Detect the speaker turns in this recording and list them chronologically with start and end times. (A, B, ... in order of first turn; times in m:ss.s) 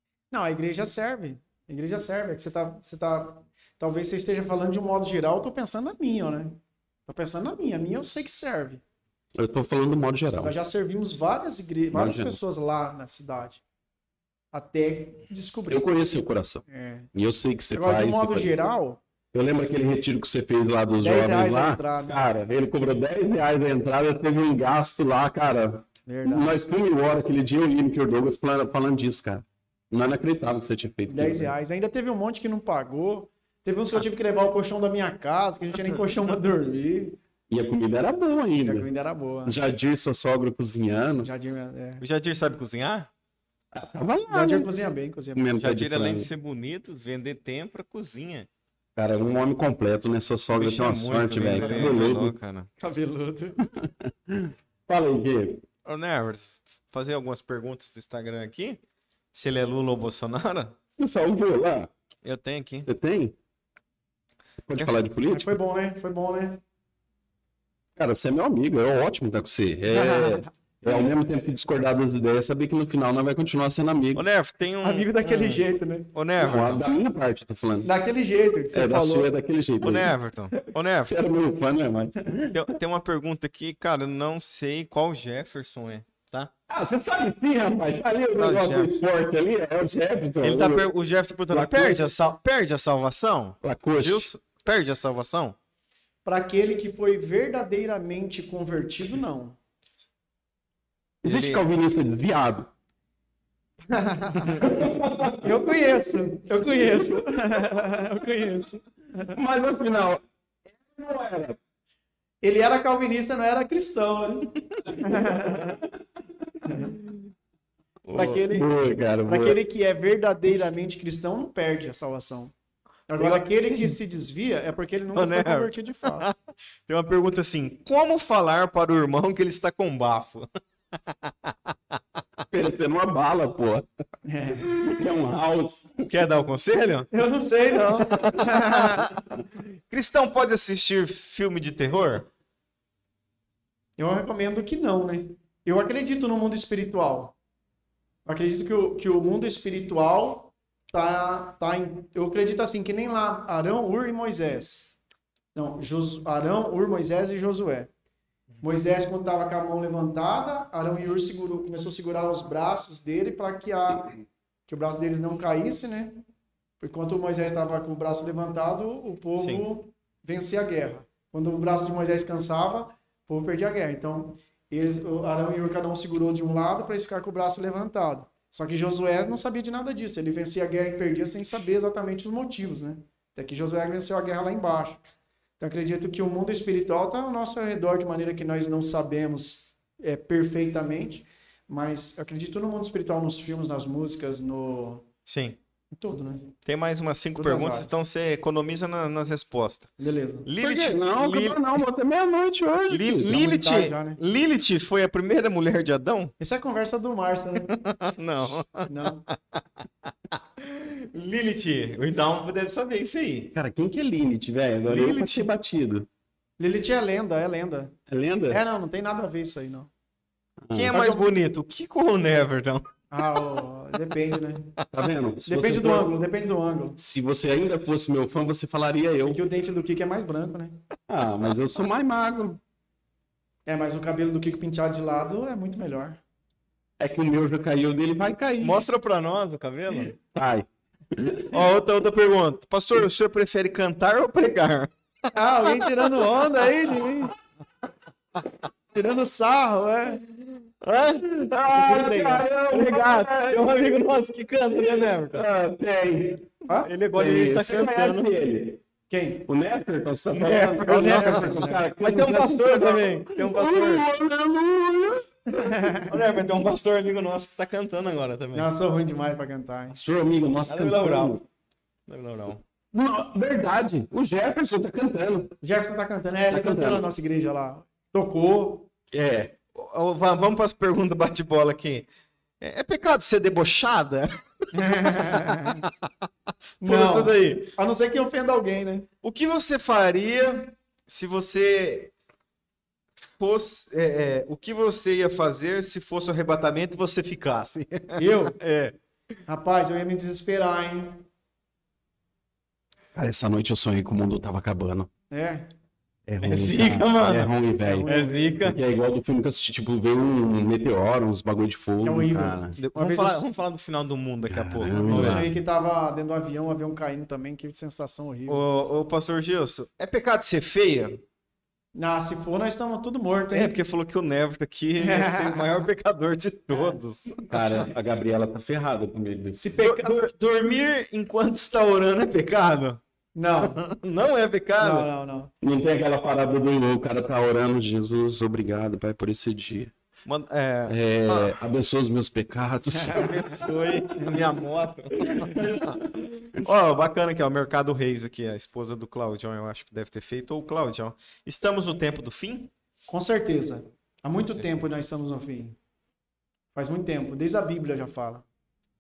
0:00.3-0:08.8 A
0:09.4-0:10.5 B
0:10.4-0:13.6 A
0:11.9-0:12.4 B
0:14.5-0:15.9 A
0:15.7-0:16.6 B
0:16.7-0:17.1 A
0:17.1-0:18.6 B
0:17.7-0:19.0 A
0:19.3-0:31.5 B
0:21.0-0:22.2 A
0:26.1-0:26.5 A
0:31.1-0:37.2 A
0:37.5-0:38.9 B
0:38.6-0:39.6 A
0:39.4-0:41.3 B
0:41.2-0:42.0 A
0:42.0-0:43.1 C
0:43.7-0:44.7 B
0:44.3-0:45.5 A
0:45.4-0:46.3 B
0:45.6-0:48.5 C
0:49.0-0:52.3 B
0:50.5-0:52.7 C
0:51.5-0:52.0 A
0:52.8-0:53.6 A
0:53.8-0:55.6 B
0:55.8-0:58.8 C
0:59.3-1:00.8 C
1:01.0-1:01.9 B
1:02.2-1:02.9 C
1:02.9-1:03.4 B
1:04.7-1:05.6 B
1:05.3-1:06.6 A
1:08.0-1:14.2 B
1:09.9-1:11.1 A
1:14.2-1:15.6 C
1:14.8-1:16.1 A
1:16.1-1:16.8 C
1:16.4-1:17.9 B
1:17.8-1:19.3 A
1:18.7-1:20.1 B
1:19.8-1:21.1 C
1:21.0-1:22.6 B
1:22.5-1:26.5 C
1:26.7-1:30.9 B
1:28.4-1:29.0 C
1:30.4-1:35.6 C
1:31.5-1:32.1 B
1:33.6-1:34.3 B
1:36.2-1:39.6 A
1:41.2-1:41.6 C
1:41.2-1:42.7 B
1:43.9-1:44.8 A
1:44.6-1:47.7 B
1:45.4-1:49.4 A
1:49.3-1:50.2 B
1:50.8-1:51.6 B
1:52.4-1:55.8 A
1:55.0-1:55.8 B
1:56.6-1:57.0 A
1:58.1-1:59.6 B
1:58.1-1:58.7 A
1:59.3-2:02.5 A
2:03.1-2:06.3 A
2:03.2-2:03.9 C
2:05.1-2:06.4 C
2:06.9-2:11.5 C
2:12.5-2:13.9 B
2:14.2-2:14.7 A
2:14.7-2:16.1 B
2:16.1-2:17.1 C
2:17.1-2:19.1 A
2:18.0-2:19.2 C
2:19.9-2:22.3 C
2:24.0-2:27.4 A
2:28.3-2:34.9 A
2:35.6-2:37.9 A
2:38.6-2:44.1 A
2:44.7-2:46.2 A
2:46.8-3:05.0 A
3:05.6-3:15.0 A
3:15.3-3:15.6 C
3:15.9-3:16.5 A
3:16.6-3:19.9 C
3:17.4-3:18.0 A
3:20.0-3:20.5 A
3:20.4-3:21.8 C
3:20.6-3:23.4 B
3:22.9-3:26.3 C
3:23.3-3:24.2 A
3:26.4-3:27.7 A
3:27.6-3:29.6 C
3:28.9-3:29.2 A
3:30.3-3:33.5 C
3:33.5-3:36.1 B
3:34.9-3:35.5 C
3:36.6-3:37.9 A
3:38.1-3:38.6 B
3:38.5-3:39.9 A
3:40.7-3:40.9 B
3:40.7-3:42.9 C
3:40.9-3:41.2 A
3:43.1-3:44.8 A
3:44.9-3:46.1 B
3:45.5-3:47.0 A
3:47.0-3:49.4 B
3:49.3-3:50.8 A
3:51.1-3:52.6 B
3:53.7-3:56.2 A
3:57.0-3:58.8 B
3:58.6-4:00.2 C
4:00.3-4:01.6 B
4:01.5-4:07.1 C
4:05.3-4:07.3 A
4:08.9-4:10.2 A
4:10.8-4:15.4 C
4:11.3-4:13.7 B
4:15.3-4:16.5 B
4:16.8-4:18.3 C
4:17.1-4:18.8 B
4:19.1-4:19.5 A
4:19.5-4:25.9 B
4:20.3-4:24.1 C
4:20.9-4:21.8 A
4:25.5-4:26.1 A
4:26.0-4:28.7 C
4:28.6-4:30.0 A
4:29.9-4:31.4 B
4:30.7-4:31.4 C
4:32.1-4:32.6 C
4:32.9-4:35.6 B
4:35.6-4:38.9 A
4:36.5-4:37.1 B
4:39.1-4:39.5 B
4:39.8-4:42.1 C
4:42.6-4:46.1 C
4:44.7-4:45.8 A
4:46.8-4:49.1 A
4:46.8-4:47.7 C
4:49.2-4:52.1 C
4:53.2-4:59.0 C
4:58.2-4:58.6 A
4:59.5-5:01.3 A
5:03.1-5:05.1 B
5:05.3-5:05.7 A
5:06.3-5:08.1 B
5:06.4-5:07.5 C
5:07.8-5:08.6 A
5:08.1-5:08.8 C
5:08.6-5:12.8 B
5:12.0-5:13.4 A
5:12.8-5:15.5 C
5:14.5-5:15.5 B
5:15.1-5:18.6 A
5:18.5-5:21.2 C
5:22.0-5:23.8 A
5:23.5-5:27.9 C
5:25.0-5:25.8 A
5:26.7-5:27.0 A
5:27.5-5:29.6 B
5:29.6-5:30.3 A
5:29.8-5:33.0 C
5:33.4-5:33.8 A
5:33.6-5:35.1 C
5:34.8-5:35.5 A
5:35.6-5:39.9 B
5:40.2-5:41.6 C
5:40.9-5:43.7 B
5:43.0-5:43.6 A
5:43.1-5:52.7 C
5:45.6-5:46.0 B
5:53.1-5:55.8 A
5:56.7-5:58.4 A